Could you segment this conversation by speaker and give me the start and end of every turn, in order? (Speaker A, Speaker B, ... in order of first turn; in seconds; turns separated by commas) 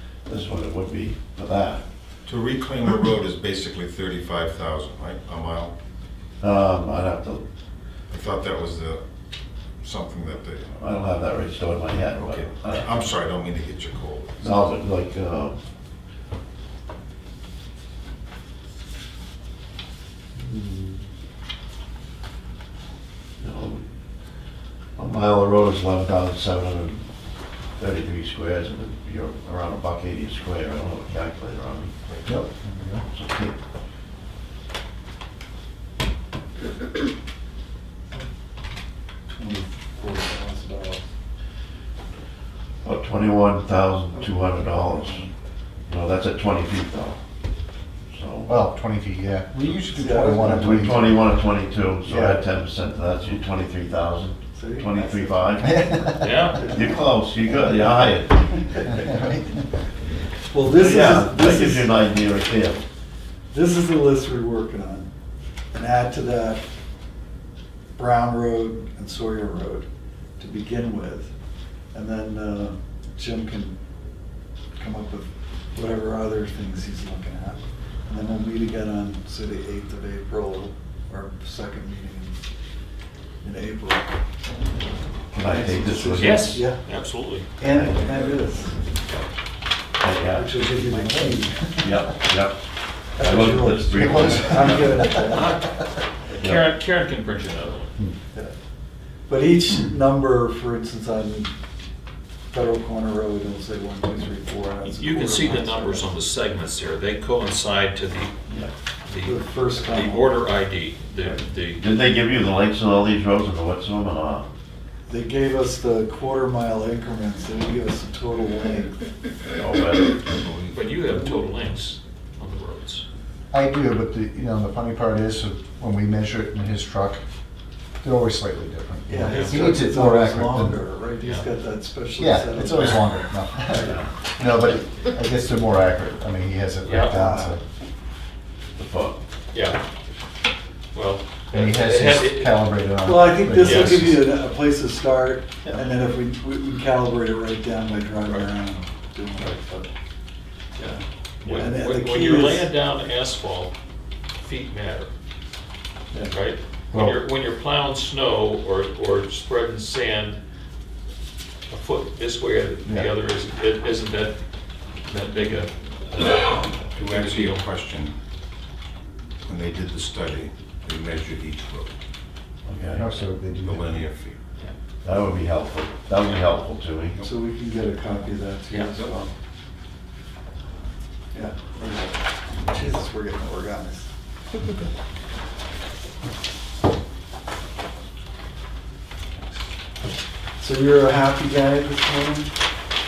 Speaker A: 0.2-1.8, Speaker B: 2.2-5.7, Speaker A: 6.4-7.4, Speaker B: 8.1-9.0, Speaker B: 9.8-10.8, Speaker A: 10.8-13.1, Speaker B: 12.0-14.5, Speaker A: 14.4-15.6, Speaker A: 20.4-21.0, Speaker A: 23.4-23.8, Speaker A: 24.9-27.1, Speaker A: 27.8-31.9, Speaker C: 32.2-33.0, Speaker A: 33.1-33.5, Speaker D: 39.3-41.0, Speaker A: 42.8-45.3, Speaker D: 44.2-45.3, Speaker A: 45.9-47.2, Speaker A: 48.1-48.6, Speaker C: 48.5-51.2, Speaker D: 49.9-50.9, Speaker A: 50.5-59.0, Speaker D: 52.0-52.5, Speaker D: 54.5-56.9, Speaker C: 55.6-56.5, Speaker E: 56.2-56.6, Speaker C: 59.0-59.4, Speaker D: 60.5-61.9, Speaker A: 60.7-62.8, Speaker D: 63.5-65.1, Speaker D: 65.7-66.6, Speaker D: 68.0-69.9, Speaker D: 70.4-71.3, Speaker D: 71.9-73.8, Speaker D: 74.8-82.4, Speaker D: 83.4-84.2, Speaker A: 85.3-86.7, Speaker D: 85.3-86.8, Speaker E: 86.1-87.5, Speaker D: 87.6-88.8, Speaker A: 87.6-88.2, Speaker A: 90.0-90.5, Speaker D: 90.3-91.9, Speaker C: 90.8-91.9, Speaker A: 91.8-92.6, Speaker D: 93.2-95.6, Speaker A: 93.2-95.2, Speaker C: 93.9-95.5, Speaker E: 95.2-97.9, Speaker A: 96.4-96.7, Speaker D: 99.3-101.5, Speaker D: 102.5-106.1, Speaker E: 104.8-108.4, Speaker E: 109.0-111.8, Speaker D: 109.2-110.4, Speaker A: 111.2-114.5, Speaker D: 115.1-119.1, Speaker A: 119.6-120.2, Speaker B: 120.2-120.9, Speaker E: 120.7-123.0, Speaker C: 123.5-127.2, Speaker C: 128.0-130.8, Speaker D: 129.1-133.9, Speaker E: 129.2-129.6, Speaker E: 131.2-131.5, Speaker C: 132.2-137.6, Speaker E: 133.8-134.0, Speaker A: 133.8-134.1, Speaker E: 136.8-137.2, Speaker D: 137.0-137.6, Speaker A: 138.8-139.2, Speaker E: 139.5-139.8, Speaker E: 140.9-142.7, Speaker C: 141.5-144.3, Speaker D: 143.0-149.9, Speaker E: 143.6-144.2, Speaker E: 148.2-148.5, Speaker E: 149.3-149.6, Speaker E: 150.8-153.7, Speaker D: 151.5-152.7, Speaker E: 154.4-155.1, Speaker E: 156.3-160.4, Speaker C: 156.9-157.2, Speaker E: 161.7-164.4, Speaker C: 162.8-163.1, Speaker E: 165.0-167.7, Speaker B: 166.9-168.1, Speaker B: 169.4-171.9, Speaker A: 172.6-173.1, Speaker C: 172.9-173.9, Speaker B: 173.5-174.4, Speaker A: 175.0-177.2, Speaker D: 177.2-179.3, Speaker D: 181.3-184.1, Speaker D: 190.6-192.5